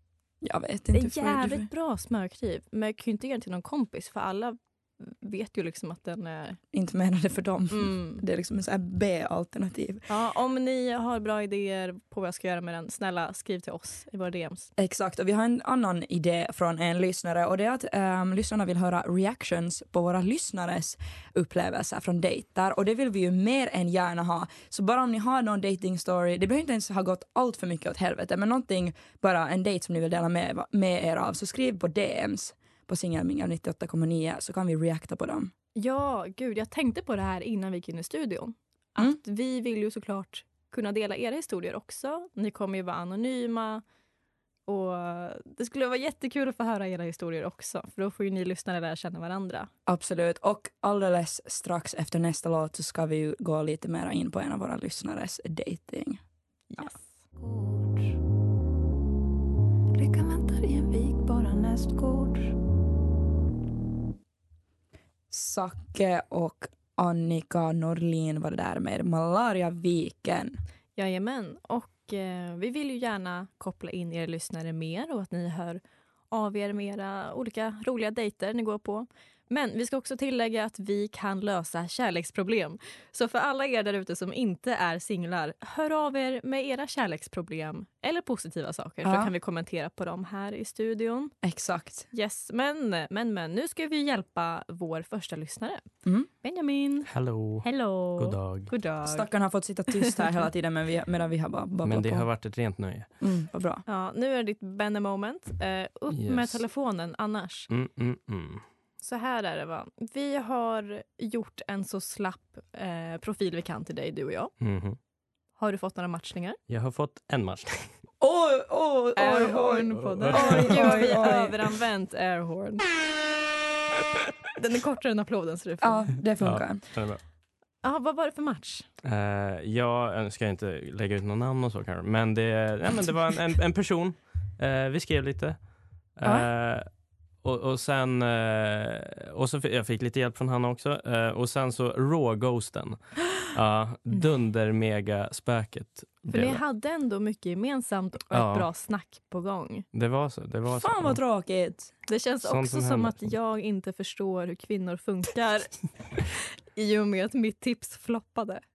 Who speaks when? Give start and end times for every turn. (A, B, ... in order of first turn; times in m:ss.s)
0:00.4-0:01.7 A
0:00.9-0:06.6 B
0:06.7-0:10.1 A
0:07.7-0:08.2 B
0:10.1-0:14.7 B
0:14.8-0:35.5 A
0:35.8-0:43.8 B
0:44.7-0:49.7 B
0:49.9-0:56.2 A
0:56.7-0:57.1 B
1:00.0-1:02.4 A
1:05.3-1:10.6 A
1:11.0-1:31.3 B
1:29.0-1:29.3 A
1:31.4-1:32.1 A
1:32.1-1:35.9 B
1:36.4-1:37.1 B
1:37.1-1:38.7 C
1:37.6-1:39.3 B
1:39.0-1:42.3 A
1:41.8-1:43.1 C
1:43.2-1:43.8 A
1:43.9-1:47.7 B
1:46.1-1:46.6 C
1:47.7-1:48.6 C
1:49.0-1:54.5 B
1:54.6-1:55.0 C
1:55.6-1:56.6 B
1:56.7-1:57.9 C
1:58.2-2:01.6 A
1:59.2-2:02.9 B
2:00.0-2:01.2 C
2:04.6-2:06.2 B
2:05.8-2:06.8 A
2:06.4-2:07.2 C
2:07.8-2:08.9 B
2:09.0-2:15.6 C
2:16.2-2:16.9 C
2:17.4-2:26.6 C
2:26.3-2:29.9 B
2:28.3-2:28.7 C
2:29.9-2:31.2 C
2:30.8-2:31.9 A
2:32.1-2:38.6 B
2:32.4-2:33.3 C